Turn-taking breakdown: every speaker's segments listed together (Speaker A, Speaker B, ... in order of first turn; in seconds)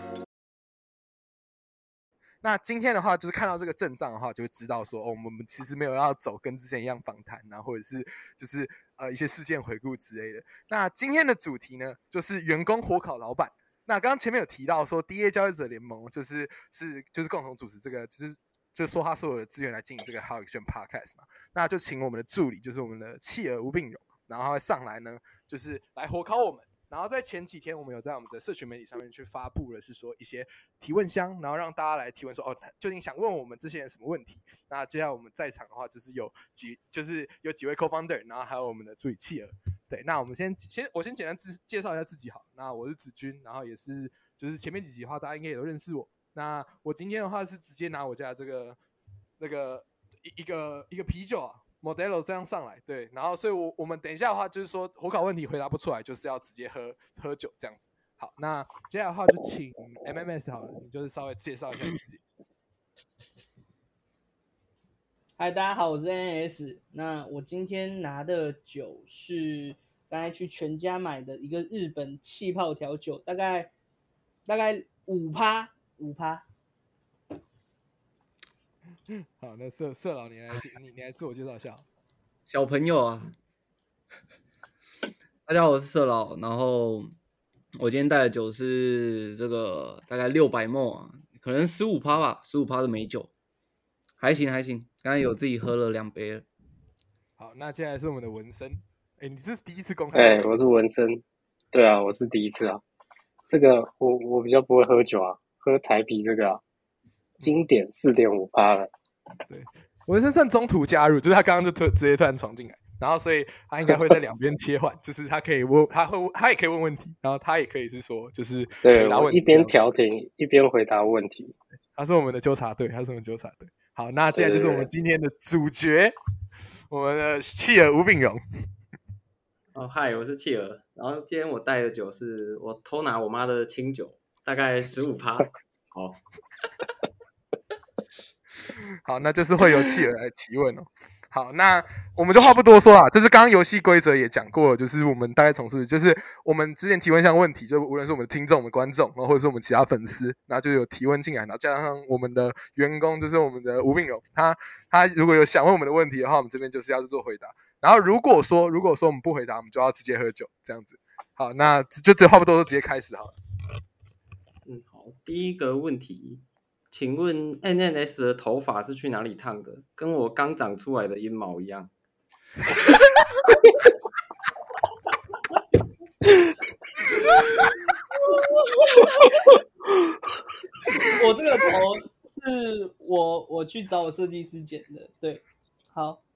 Speaker A: 2.4-48.8, 49.4-62.2, 79.1-81.8, 97.4-100.5, 109.5-119.8, 122.0-126.1, 126.9-128.4, 139.0-163.3
Speaker B: 65.4-73.7, 74.5-76.4, 181.0-186.2
Speaker C: 82.5-83.3, 85.5-87.1, 87.8-93.3, 94.2-96.4
Speaker D: 100.1-102.8, 103.5-106.6, 107.4-108.9, 118.8-121.5, 124.3-124.9
Speaker E: 129.7-136.2, 164.7-171.9